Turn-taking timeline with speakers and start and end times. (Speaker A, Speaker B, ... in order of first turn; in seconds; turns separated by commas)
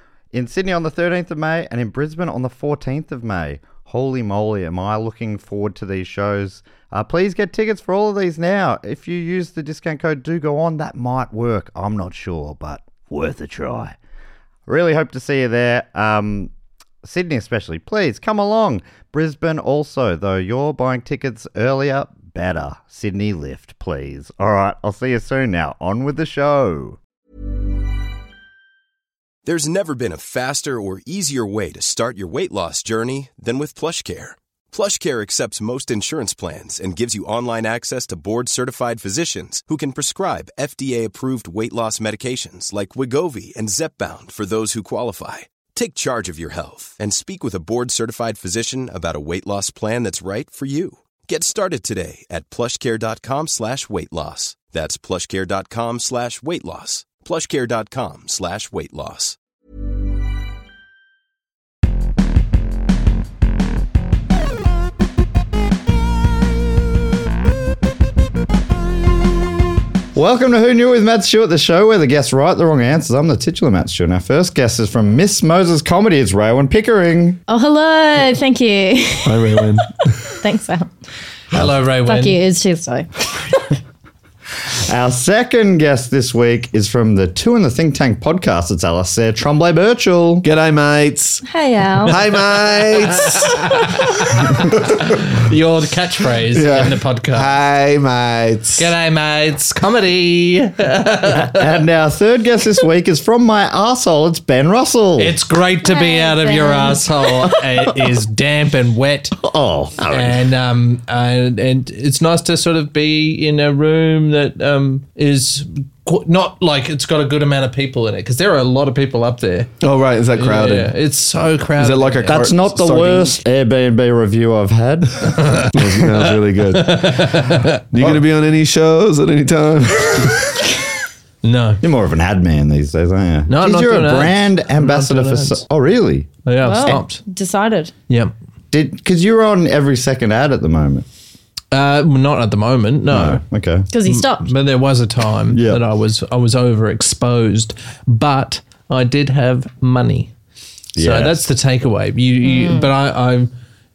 Speaker A: 0.3-13.9, Speaker A: 14.7-16.5, Speaker A: 17.0-27.0, Speaker B: 29.4-59.4, Speaker A: 70.1-77.4, Speaker C: 77.5-79.7, Speaker D: 79.2-80.3, Speaker C: 80.3-80.9, Speaker E: 81.5-82.4, Speaker C: 82.0-83.1, Speaker A: 84.7-90.5, Speaker D: 90.4-91.4, Speaker C: 91.4-92.2, Speaker D: 92.0-93.9, Speaker E: 92.2-97.5, Speaker D: 96.5-98.9, Speaker E: 98.8-101.7, Speaker A: 101.3-105.4, Speaker E: 105.2-109.4, Speaker C: 105.8-107.1, Speaker A: 109.4-110.5, Speaker E: 110.1-119.7, Speaker D: 119.8-120.9, Speaker E: 120.3-122.4, Speaker D: 121.8-123.3, Speaker A: 122.2-125.7, Speaker E: 125.3-127.8, Speaker D: 125.7-127.4, Speaker D: 127.9-130.5, Speaker E: 131.4-131.8, Speaker A: 131.8-136.3, Speaker E: 133.5-135.6, Speaker E: 136.4-137.2, Speaker C: 136.6-137.9, Speaker A: 138.7-141.0, Speaker E: 141.7-143.4, Speaker A: 143.1-143.9, Speaker C: 143.9-144.5, Speaker E: 144.1-150.3, Speaker A: 145.5-145.8, Speaker A: 150.9-151.4, Speaker E: 151.0-153.5, Speaker C: 152.4-152.9